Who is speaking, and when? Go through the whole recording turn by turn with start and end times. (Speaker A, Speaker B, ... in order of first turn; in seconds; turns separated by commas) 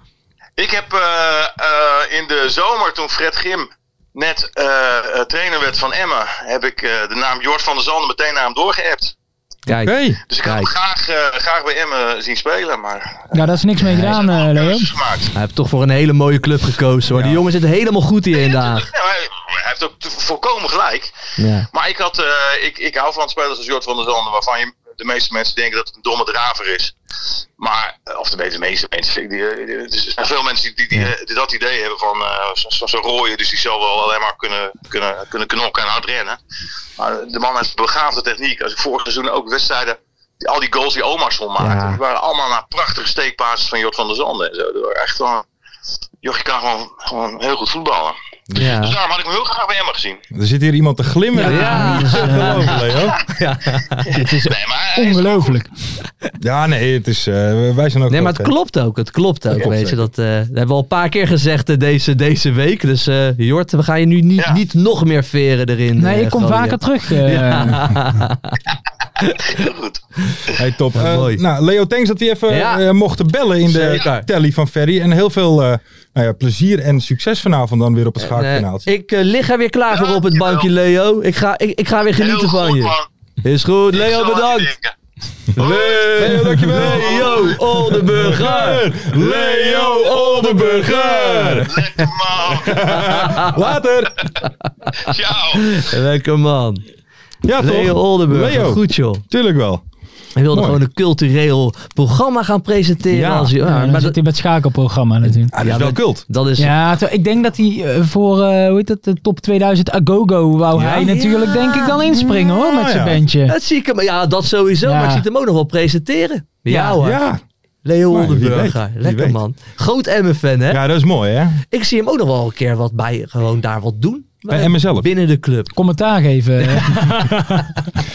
Speaker A: 0.6-9.1, Speaker B: 9.7-10.7, Speaker C: 9.7-10.2, Speaker A: 10.3-13.4, Speaker D: 13.3-14.9, Speaker B: 13.8-14.2, Speaker A: 14.0-15.3, Speaker B: 15.3-18.9, Speaker C: 17.1-17.4, Speaker A: 18.3-21.1, Speaker B: 21.4-21.7, Speaker A: 21.7-26.9, Speaker A: 27.6-36.4, Speaker A: 37.0-45.4, Speaker B: 41.6-42.0, Speaker A: 46.2-50.2, Speaker B: 48.6-49.0, Speaker C: 50.3-53.2, Speaker D: 51.3-52.7, Speaker B: 51.4-54.1, Speaker D: 54.1-55.7, Speaker A: 54.1-55.6, Speaker C: 56.4-58.5, Speaker B: 58.1-68.6, Speaker C: 59.5-60.1, Speaker D: 66.0-67.9, Speaker B: 69.2-69.7, Speaker A: 69.2-70.0, Speaker C: 70.5-78.9, Speaker B: 70.9-71.4, Speaker B: 72.5-72.8, Speaker B: 73.7-74.2, Speaker B: 78.2-84.7, Speaker A: 79.9-80.7, Speaker A: 82.1-83.1, Speaker A: 83.9-84.9, Speaker C: 85.5-91.7, Speaker A: 85.6-86.3, Speaker B: 85.6-92.1, Speaker A: 86.9-87.5, Speaker A: 91.7-93.2, Speaker C: 92.5-94.1, Speaker B: 92.7-93.6, Speaker A: 95.0-95.8, Speaker B: 95.1-96.8, Speaker C: 97.4-99.8, Speaker B: 97.6-99.2, Speaker B: 100.4-104.2, Speaker C: 100.5-100.8, Speaker C: 103.1-103.5, Speaker D: 103.6-105.5, Speaker C: 105.5-106.2, Speaker B: 105.6-106.8, Speaker D: 106.6-113.6, Speaker C: 110.7-111.3, Speaker B: 110.8-111.9, Speaker C: 112.0-113.2, Speaker B: 113.5-117.2, Speaker D: 114.8-115.2, Speaker D: 116.7-117.0, Speaker C: 117.0-117.4, Speaker B: 117.8-120.8, Speaker C: 118.1-119.4, Speaker C: 120.7-121.6, Speaker B: 121.7-125.7, Speaker C: 124.5-125.1, Speaker D: 125.7-127.8